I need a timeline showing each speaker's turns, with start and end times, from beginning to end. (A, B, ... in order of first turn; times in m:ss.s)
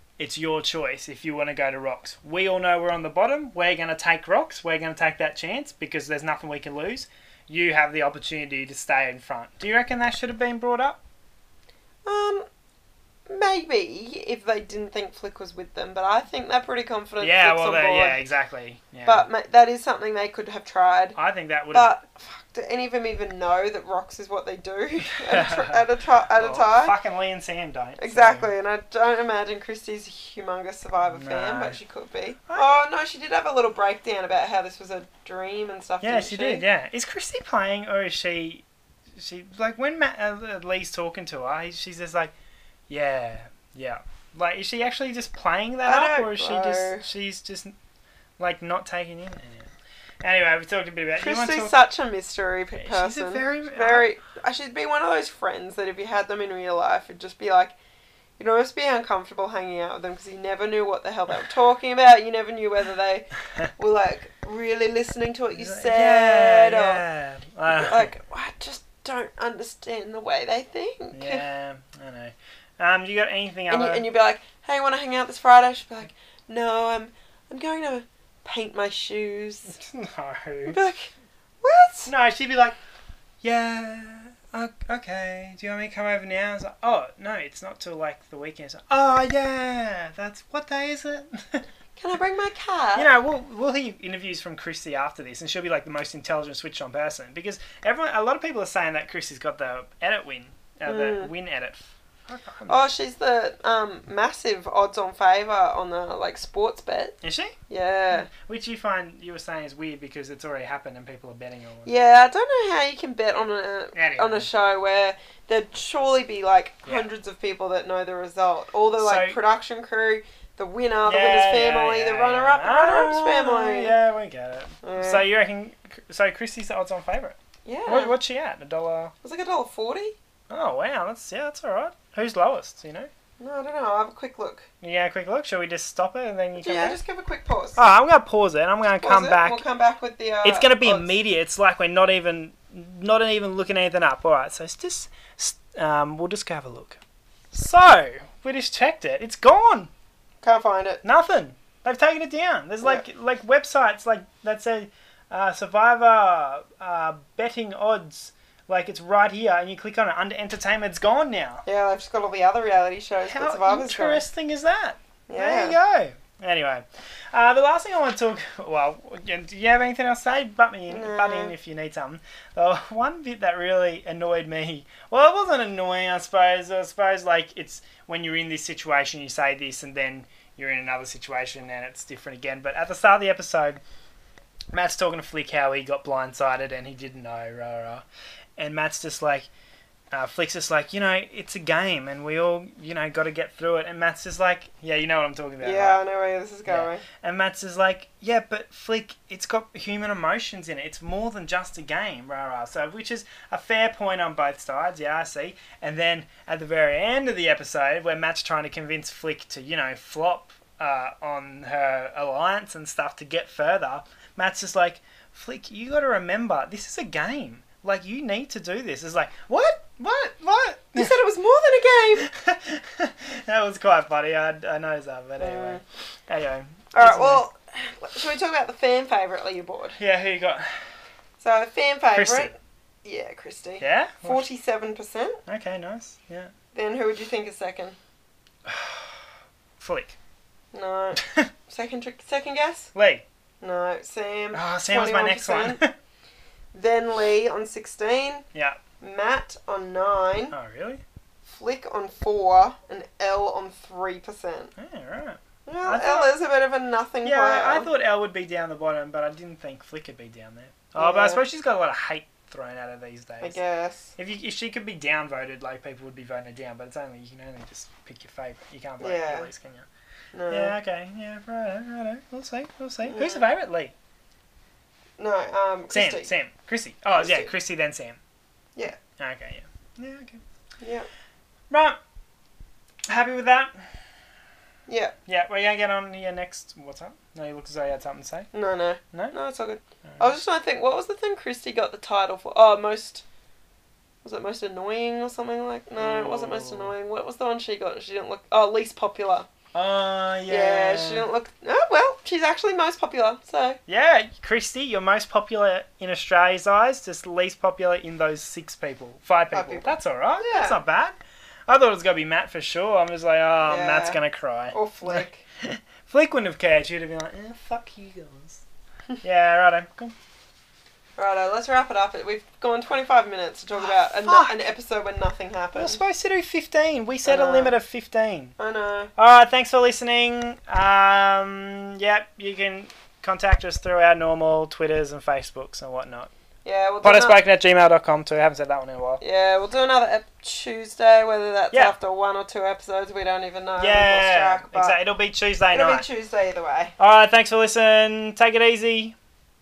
0:00.2-0:11.0 A
0:12.1-0:12.5 B
0:13.3-0:18.2 B
0:17.2-0:19.3 A
0:19.0-0:21.2 B
0:21.2-0:21.9 A
0:21.7-0:26.9 B
0:25.1-0:25.9 A
0:26.4-0:28.5 A
0:28.0-0:36.6 B
0:31.1-0:31.8 A
0:32.5-0:32.8 A
0:36.0-0:38.6 A
0:39.2-0:42.3 A
0:42.9-0:47.7 A
0:45.8-0:47.1 B
0:48.4-0:51.8 A
0:51.2-0:57.8 B
0:52.7-0:54.1 A
0:58.4-1:07.0 B
1:05.5-1:08.1 A
1:07.7-1:11.4 B
1:11.1-1:14.0 A
1:13.7-1:19.8 B
1:19.7-1:20.8 A
1:20.7-1:22.1 B
1:22.1-1:22.8 A
1:23.4-1:31.7 A
1:32.0-1:33.2 B
1:33.0-1:42.9 A
1:40.9-1:41.3 B
1:42.7-1:47.2 B
1:47.2-1:47.6 A
1:47.7-1:48.3 B
1:48.1-1:52.0 A
1:51.9-2:03.9 B
1:53.9-1:54.5 A
1:59.0-1:59.4 A
2:01.0-2:09.1 A
2:04.8-2:05.3 B
2:07.6-2:08.2 B
2:09.2-2:10.2 B
2:10.5-2:13.1 A
2:13.4-2:14.7 B
2:14.8-2:17.0 A
2:16.6-2:17.8 B
2:17.8-2:19.6 A
2:19.0-2:21.1 B
2:20.4-2:27.0 A
2:27.5-2:29.9 A
2:30.4-2:31.0 B
2:31.0-2:41.6 A
2:41.6-2:44.2 B
2:43.3-3:03.8 A
2:45.3-2:45.8 B
2:50.9-2:51.5 B
3:04.7-3:08.0 A
3:08.6-3:09.5 A
3:10.1-3:16.0 A
3:15.6-3:17.0 B
3:16.7-3:41.2 A
3:41.0-3:42.3 B
3:42.2-3:47.4 A
3:45.4-3:45.8 B
3:46.9-3:50.0 B
3:50.0-3:50.7 A
3:51.4-3:55.4 B
3:52.1-3:52.5 A
3:53.8-3:54.4 A
3:55.5-3:56.5 A
3:56.7-3:58.0 B
3:58.6-3:59.2 A
3:59.8-4:00.2 A
4:00.7-4:02.9 B
4:01.2-4:01.5 A
4:03.0-4:03.2 A
4:03.6-4:05.8 B
4:04.5-4:05.9 A
4:06.7-4:08.5 B
4:08.5-4:08.8 A
4:09.0-4:10.5 B
4:10.5-4:11.0 A
4:11.5-4:14.7 B
4:14.8-4:16.3 A
4:15.7-4:17.9 B
4:17.2-4:23.6 A
4:21.0-4:21.4 B
4:23.4-4:24.2 B
4:24.2-4:29.9 A
4:29.0-4:29.5 B
4:30.3-4:30.8 B
4:30.5-4:33.9 A
4:33.0-4:33.4 B
4:35.2-4:36.3 B
4:35.9-4:38.2 A
4:37.2-4:37.5 B
4:39.2-4:40.4 A
4:40.8-4:41.1 B
4:41.7-4:42.0 A
4:43.1-4:43.9 A
4:44.9-4:45.2 B
4:45.3-4:48.5 A
4:48.5-4:53.2 B
4:54.2-4:59.5 B
4:56.0-4:56.9 A
4:59.7-5:01.3 A
5:00.5-5:03.8 B
5:03.9-5:11.2 A
5:09.5-5:10.8 B
5:11.7-5:18.6 A
5:13.6-5:14.2 B
5:14.7-5:15.4 B
5:19.2-5:20.2 A
5:21.2-5:26.0 B
5:23.8-5:24.7 A
5:25.7-5:28.5 A
5:27.2-5:27.8 B
5:28.6-5:29.1 B
5:29.2-5:36.3 A
5:36.6-5:37.4 B
5:37.0-5:39.2 A
5:39.2-5:45.0 B
5:43.8-5:46.1 A
5:45.7-5:47.0 B
5:47.0-5:49.2 A